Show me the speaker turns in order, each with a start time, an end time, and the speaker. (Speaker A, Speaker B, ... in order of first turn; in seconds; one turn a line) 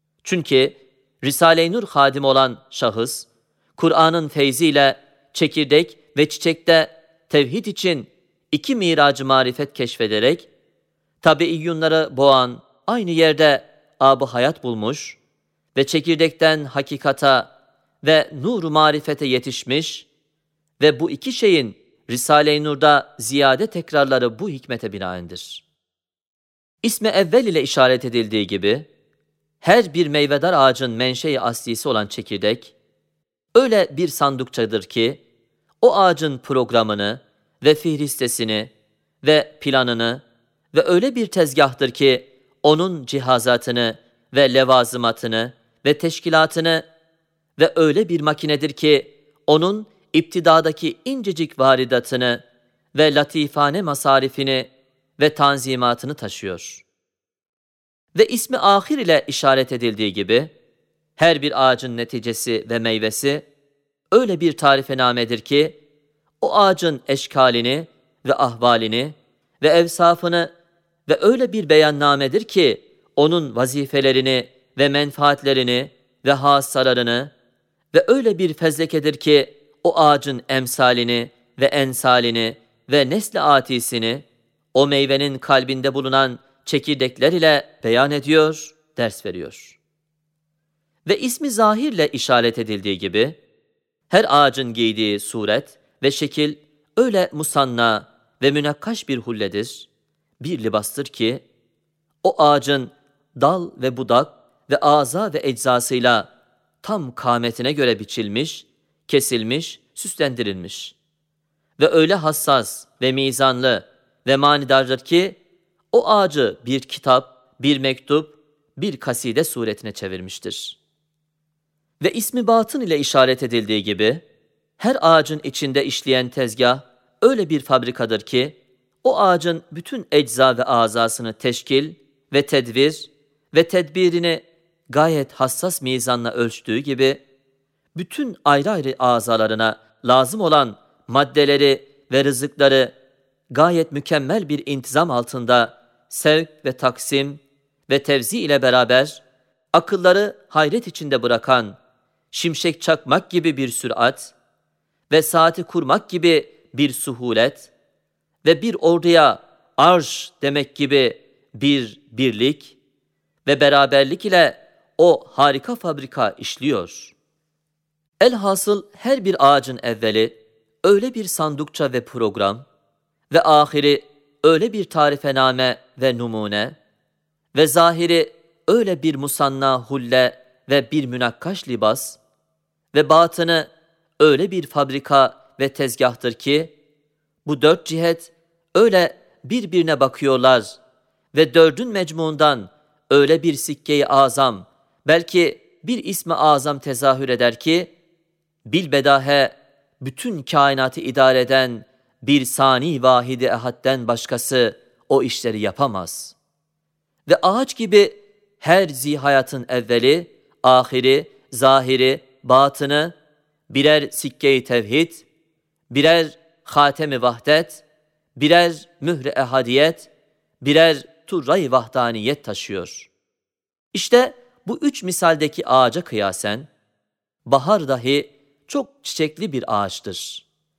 Speaker A: 0.2-10.5
Speaker A: 11.2-15.2
Speaker A: 15.7-17.5
Speaker A: 18.0-20.1
Speaker A: 20.8-25.6
Speaker A: 26.8-28.9
Speaker A: 29.6-32.7
Speaker A: 33.5-35.2
Speaker A: 35.8-38.7
Speaker A: 39.2-46.9
Speaker A: 47.6-52.4
Speaker A: 52.9-56.8
Speaker A: 58.1-60.5
Speaker A: 61.2-63.5
Speaker A: 64.1-65.8
Speaker A: 66.4-70.5
Speaker A: 71.1-77.3
Speaker A: 77.9-89.8
Speaker A: 91.0-93.4
Speaker A: 94.1-99.9
Speaker A: 100.4-101.4
Speaker A: 102.2-106.3
Speaker A: 106.8-110.9
Speaker A: 111.8-115.4
Speaker A: 115.9-120.8
Speaker A: 122.0-124.2
Speaker A: 124.8-137.2
Speaker A: 137.9-142.9
Speaker A: 143.5-151.8
Speaker A: 152.3-154.3
Speaker A: 155.1-157.7
Speaker A: 158.4-162.8
Speaker A: 163.4-167.1
Speaker A: 168.2-172.6
Speaker A: 173.3-176.8
Speaker A: 177.5-182.2
Speaker A: 182.9-186.7
Speaker A: 187.4-190.8
Speaker A: 191.3-197.9
Speaker A: 198.7-206.3
Speaker A: 207.2-213.1
Speaker A: 213.7-215.2
Speaker A: 215.9-217.8
Speaker A: 218.3-220.1
Speaker A: 220.6-223.1
Speaker A: 223.9-226.7
Speaker A: 227.4-230.4